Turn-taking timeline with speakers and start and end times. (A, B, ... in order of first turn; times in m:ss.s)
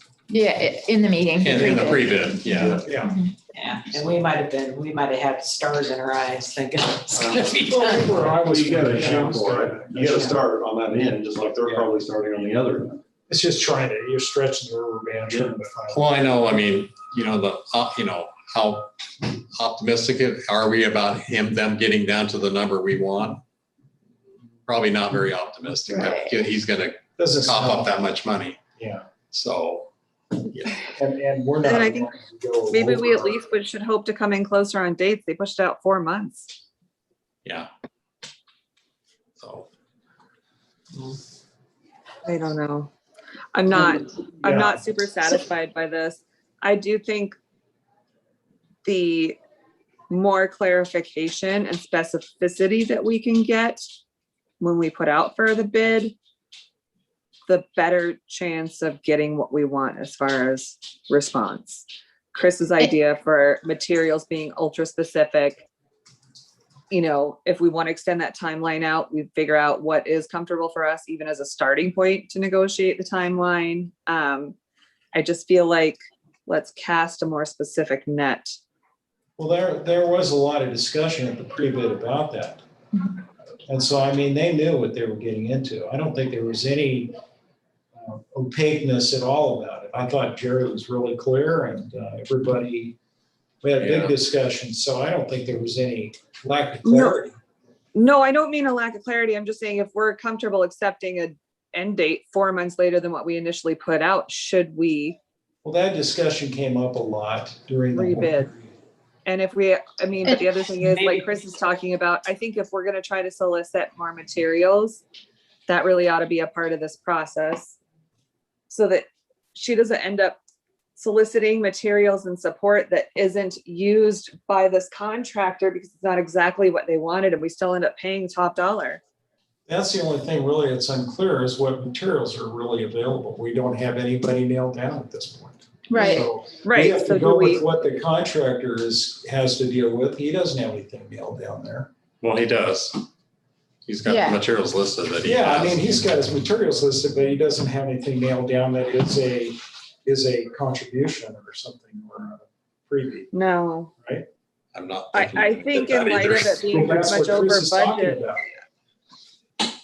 0:00.3-0:03.3 A
0:01.4-0:02.8 B
0:02.8-0:03.2 C
0:03.5-0:08.3 D
0:07.2-0:07.6 E
0:07.7-0:10.4 C
0:08.2-0:13.0 E
0:11.6-0:11.9 C
0:13.3-0:16.1 C
0:15.3-0:15.6 E
0:15.9-0:23.4 B
0:24.6-0:28.6 B
0:26.0-0:26.3 A
0:27.2-0:27.9 C
0:28.8-0:29.0 C
0:29.3-0:29.9 B
0:30.4-0:30.8 B
0:30.9-0:33.4 C
0:31.6-0:32.1 F
0:32.7-0:36.5 F
0:39.4-0:39.7 B
0:42.2-0:42.9 F
0:43.5-0:47.4 F
0:44.4-0:44.8 C
0:48.8-0:49.4 F
0:50.1-0:53.8 F
0:54.6-0:56.2 F
0:57.5-1:05.6 F
1:06.9-1:14.6 F
1:15.1-1:18.6 F
1:19.4-1:22.6 C
1:23.7-1:27.1 C
1:28.0-1:33.0 C
1:33.6-1:37.3 C
1:33.8-1:34.1 B
1:36.8-1:37.2 F
1:38.0-1:45.2 F
1:45.6-1:48.7 C
1:47.9-1:48.5 F
1:49.2-1:55.0 F
1:50.8-1:51.3 D
1:55.7-1:57.8 F
1:58.7-2:00.4 F
2:01.0-2:09.0 F
2:09.7-2:21.9 C
2:15.9-2:16.3 A
2:16.6-2:17.6 F
2:22.2-2:23.0 B
2:23.8-2:25.9 B
2:24.0-2:24.4 A
2:25.2-2:33.3 C
2:33.3-2:33.9 F
2:34.7-2:36.8 B
2:35.1-2:38.2 F
2:36.6-2:38.4 C